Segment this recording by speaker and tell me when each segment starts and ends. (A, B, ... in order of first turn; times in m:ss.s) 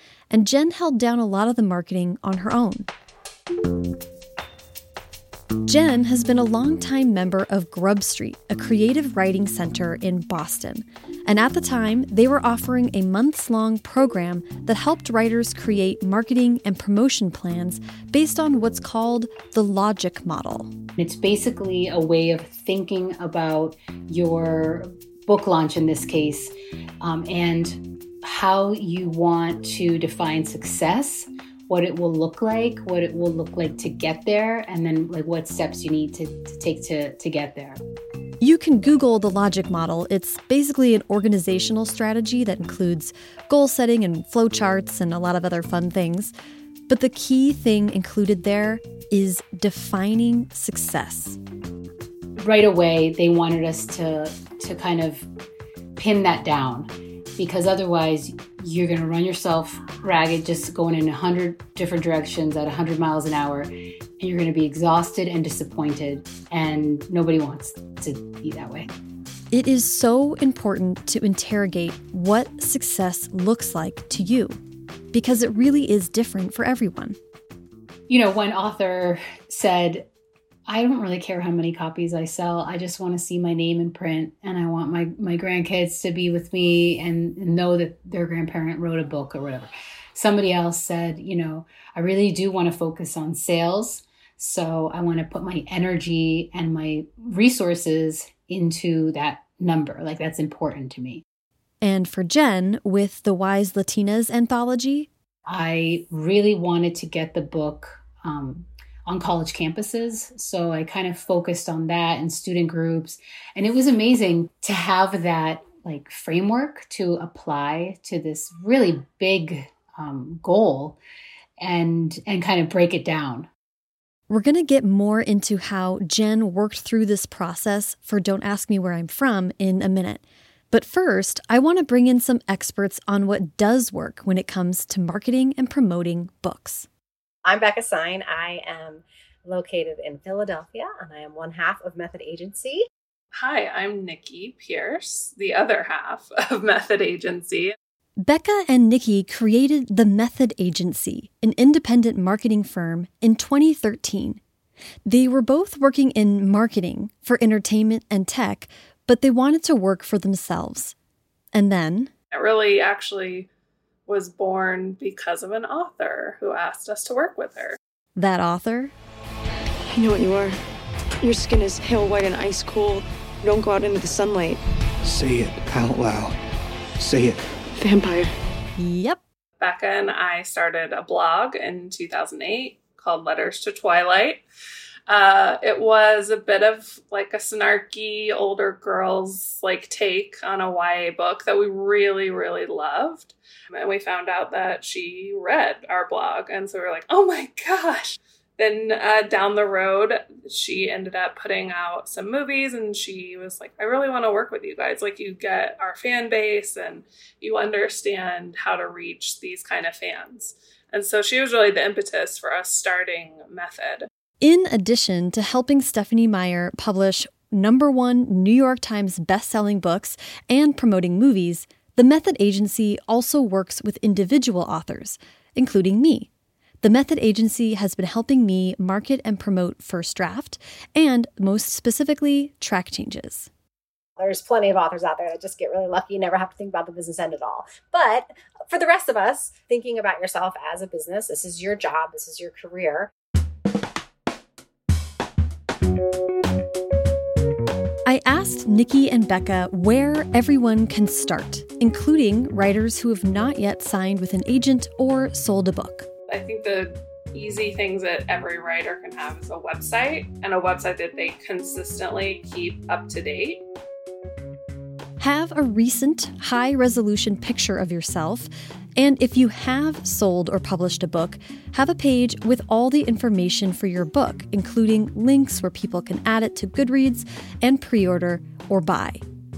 0:00.3-0:02.9 A
0:05.6-0:20.7 A
0:21.0-0:37.8 B
0:38.4-0:46.3 A
0:46.9-0:51.4 A
0:52.4-0:55.3 B
0:56.0-1:08.9 B
1:09.5-1:14.6 A
1:15.1-1:17.2 A
1:18.1-1:20.1 B
1:20.7-1:41.2 B
1:41.8-1:45.1 A
1:45.5-2:01.0 B
2:01.6-2:03.5 B
2:04.3-2:16.9 A
2:17.4-2:22.8 C
2:23.3-2:27.8 D
2:28.2-2:34.4 A
2:35.0-2:41.0 A
2:41.5-2:42.1 A
2:42.3-2:43.5 D
2:44.1-2:47.8 D
2:48.2-2:48.9 A
2:49.9-2:50.6 E
2:51.2-2:54.6 E
2:55.0-2:56.4 F
2:57.0-2:57.6 F
2:57.8-2:58.3 E
2:58.8-2:59.2 A
2:59.6-3:04.4 D
3:05.1-3:34.1 D
3:34.4-3:46.3 A
3:46.8-3:53.5 A
3:54.2-4:03.1 C
4:08.1-4:16.1 A
4:16.3-4:23.6 D
4:25.2-4:39.2 A